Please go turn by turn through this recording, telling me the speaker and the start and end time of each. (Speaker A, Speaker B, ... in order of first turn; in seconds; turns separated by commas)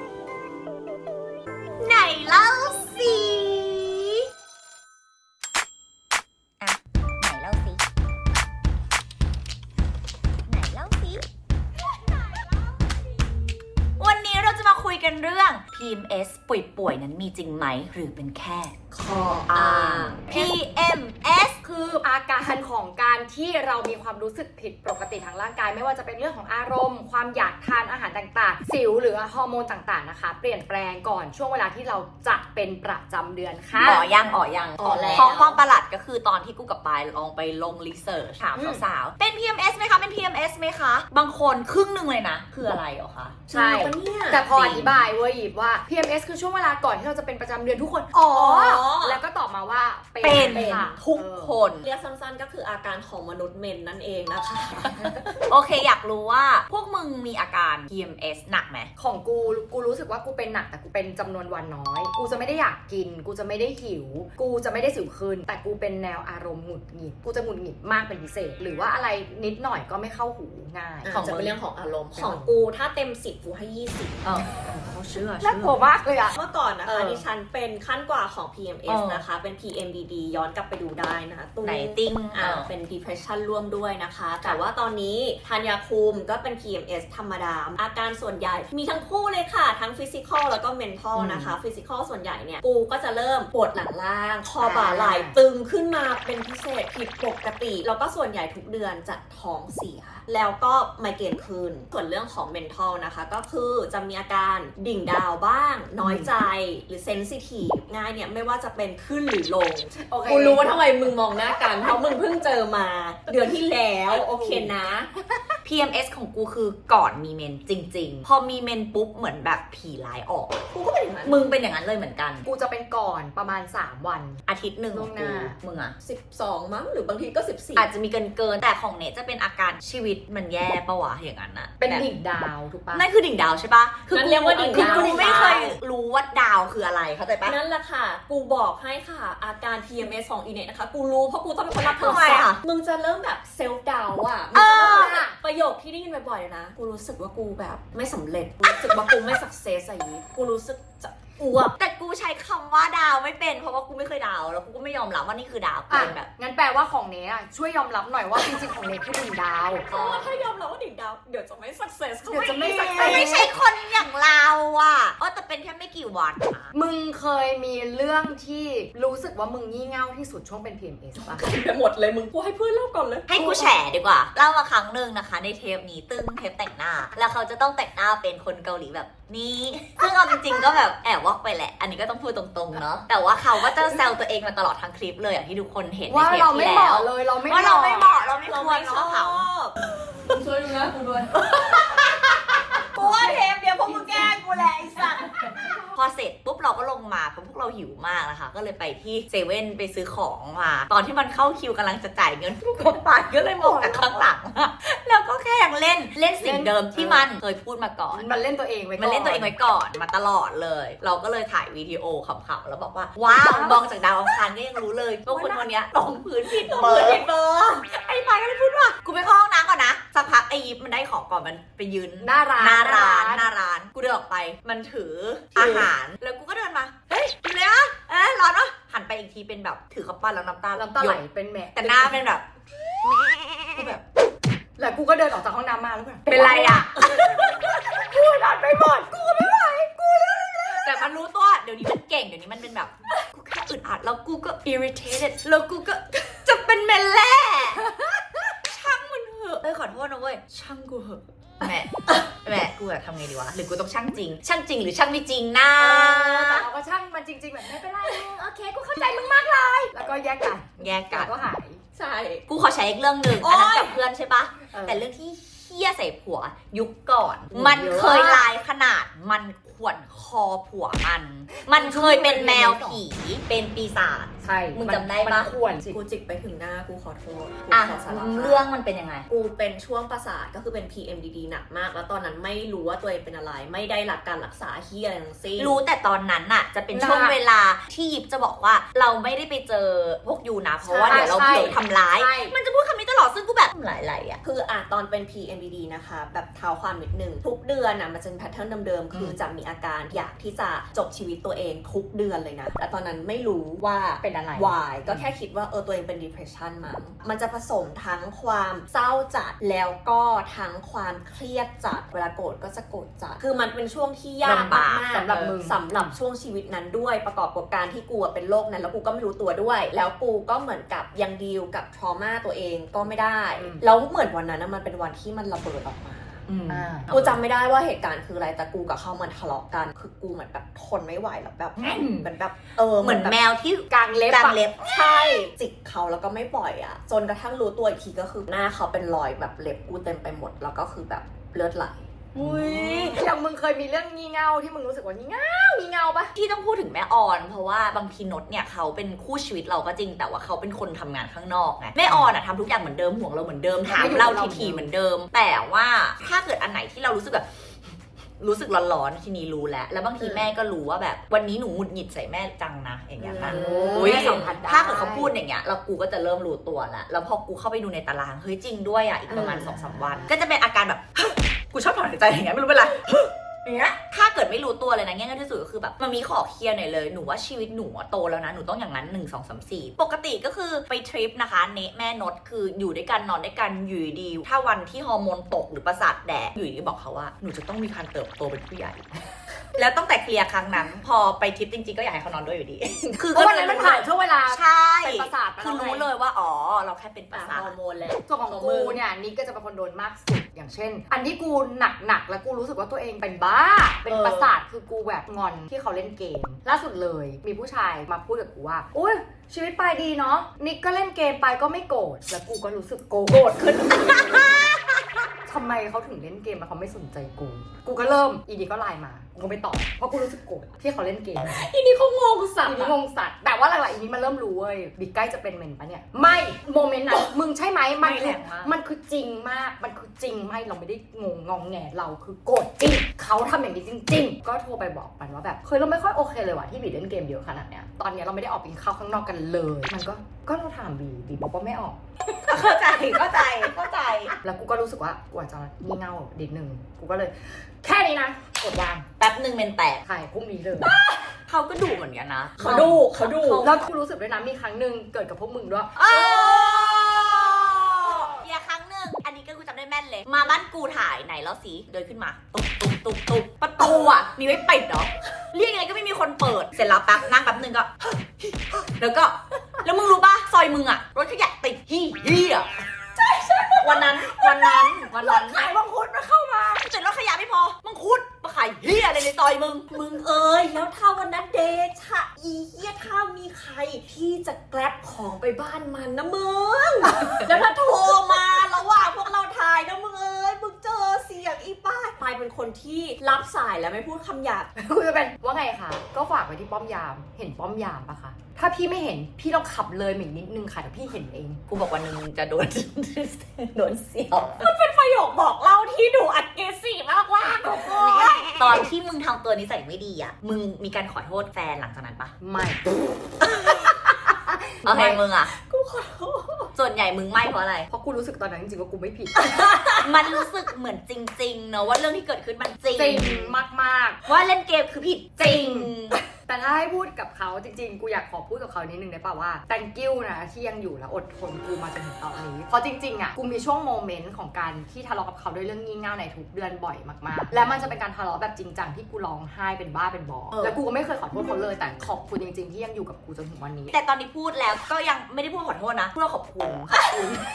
Speaker A: 1.8-4.2, Speaker A: 6.6-7.8, Speaker A: 10.5-11.2, Speaker A: 14.0-18.7, Speaker B: 18.9-20.2, Speaker A: 19.5-21.6, Speaker C: 21.8-34.1, Speaker A: 33.8-43.4, Speaker B: 34.8-35.6, Speaker C: 34.8-35.4, Speaker B: 43.5-44.5, Speaker C: 43.5-51.5, Speaker A: 44.5-45.0, Speaker B: 48.3-49.2, Speaker A: 50.2-51.9, Speaker B: 50.3-51.0, Speaker B: 51.8-55.1, Speaker A: 55.4-58.9, Speaker C: 59.0-71.5, Speaker B: 71.0-74.2, Speaker A: 71.1-71.5, Speaker C: 72.2-72.5, Speaker A: 74.2-75.8, Speaker C: 75.4-76.3, Speaker B: 76.3-115.1, Speaker C: 76.9-77.3, Speaker A: 78.9-79.2, Speaker A: 81.6-82.7, Speaker A: 91.2-91.5, Speaker C: 94.6-95.3, Speaker C: 110.0-110.7, Speaker C: 114.2-114.7, Speaker A: 115.6-120.6, Speaker B: 120.7-121.4, Speaker A: 121.3-122.5, Speaker C: 122.5-124.4, Speaker A: 124.5-126.0, Speaker C: 124.9-125.6, Speaker B: 126.0-127.9, Speaker A: 127.8-132.1, Speaker C: 131.8-133.1, Speaker A: 132.9-137.6, Speaker B: 134.1-135.7, Speaker C: 134.7-135.7, Speaker B: 137.4-151.8, Speaker A: 141.8-142.6, Speaker A: 144.5-145.2, Speaker C: 144.6-145.4, Speaker A: 151.8-156.3, Speaker C: 155.9-159.9, Speaker B: 159.9-163.6, Speaker A: 159.9-160.3, Speaker C: 162.3-163.5, Speaker A: 162.9-166.7, Speaker C: 166.7-171.4, Speaker B: 171.2-173.6, Speaker A: 173.3-189.5, Speaker C: 173.4-173.7, Speaker C: 186.1-188.1, Speaker B: 188.4-189.7, Speaker B: 191.5-192.1, Speaker B: 192.9-195.3, Speaker C: 193.0-194.3, Speaker A: 195.9-208.4, Speaker C: 203.6-204.2, Speaker C: 206.4-207.2, Speaker C: 208.1-209.5, Speaker A: 209.0-217.2, Speaker C: 213.3-213.8, Speaker C: 215.3-215.6, Speaker B: 216.6-217.9, Speaker A: 217.9-231.2, Speaker C: 222.2-223.4, Speaker C: 225.6-225.9, Speaker C: 230.8-232.2, Speaker A: 231.8-232.4, Speaker C: 233.8-234.0, Speaker C: 234.8-240.6, Speaker A: 236.3-237.5, Speaker A: 240.6-247.8, Speaker C: 244.7-244.9, Speaker C: 247.9-248.2, Speaker A: 248.7-256.7, Speaker C: 255.8-261.8, Speaker A: 260.8-261.3, Speaker B: 261.9-262.4, Speaker A: 262.5-275.5, Speaker B: 263.4-264.0, Speaker C: 264.7-265.1, Speaker C: 267.5-268.5, Speaker C: 271.7-273.0, Speaker C: 274.4-276.0, Speaker B: 275.8-278.7, Speaker A: 277.7-279.2, Speaker B: 279.3-285.8, Speaker A: 285.6-294.4, Speaker C: 286.9-287.4, Speaker B: 290.8-291.7, Speaker C: 291.1-292.6, Speaker B: 294.4-326.5, Speaker C: 304.2-304.8, Speaker C: 314.4-316.1, Speaker A: 314.5-315.0, Speaker C: 323.6-323.8, Speaker A: 326.5-327.3, Speaker C: 326.7-327.1, Speaker B: 327.1-333.4, Speaker A: 331.8-332.3, Speaker A: 333.0-335.1, Speaker C: 333.9-334.6, Speaker B: 334.9-342.1, Speaker A: 342.3-343.2, Speaker C: 342.3-346.3, Speaker A: 346.4-357.5, Speaker C: 353.9-354.9, Speaker A: 358.4-373.3, Speaker B: 360.2-360.5, Speaker B: 363.2-364.6, Speaker C: 363.4-365.3, Speaker B: 369.3-369.8, Speaker A: 373.9-389.1, Speaker A: 389.8-397.7, Speaker C: 393.1-396.1, Speaker B: 397.3-398.2, Speaker C: 398.3-414.5, Speaker A: 398.5-398.9, Speaker B: 404.1-404.5, Speaker A: 413.8-414.6, Speaker C: 415.5-421.7, Speaker B: 421.4-422.9, Speaker C: 422.6-442.0, Speaker A: 428.0-428.7, Speaker A: 442.5-444.4, Speaker C: 444.4-449.1, Speaker A: 449.2-450.0, Speaker C: 450.1-451.0, Speaker A: 451.5-453.7, Speaker B: 452.6-453.7, Speaker C: 452.6-452.9, Speaker C: 453.6-456.1, Speaker A: 456.0-467.9, Speaker B: 456.1-458.1, Speaker A: 468.9-472.7, Speaker C: 473.2-476.9, Speaker B: 473.8-474.9, Speaker A: 473.8-475.7, Speaker A: 476.8-479.9, Speaker B: 479.9-494.7, Speaker C: 494.8-501.6, Speaker A: 501.7-504.7, Speaker B: 504.6-508.5, Speaker C: 507.8-508.1, Speaker A: 508.6-512.3, Speaker C: 512.4-512.8, Speaker C: 514.3-515.2, Speaker A: 514.8-515.5, Speaker B: 515.6-516.7, Speaker A: 516.8-517.9, Speaker C: 517.9-519.6, Speaker B: 519.5-519.8, Speaker A: 520.0-523.6, Speaker C: 523.0-524.2, Speaker A: 524.3-526.2, Speaker C: 525.4-525.9, Speaker C: 526.5-543.9, Speaker A: 537.6-537.9, Speaker A: 543.9-547.3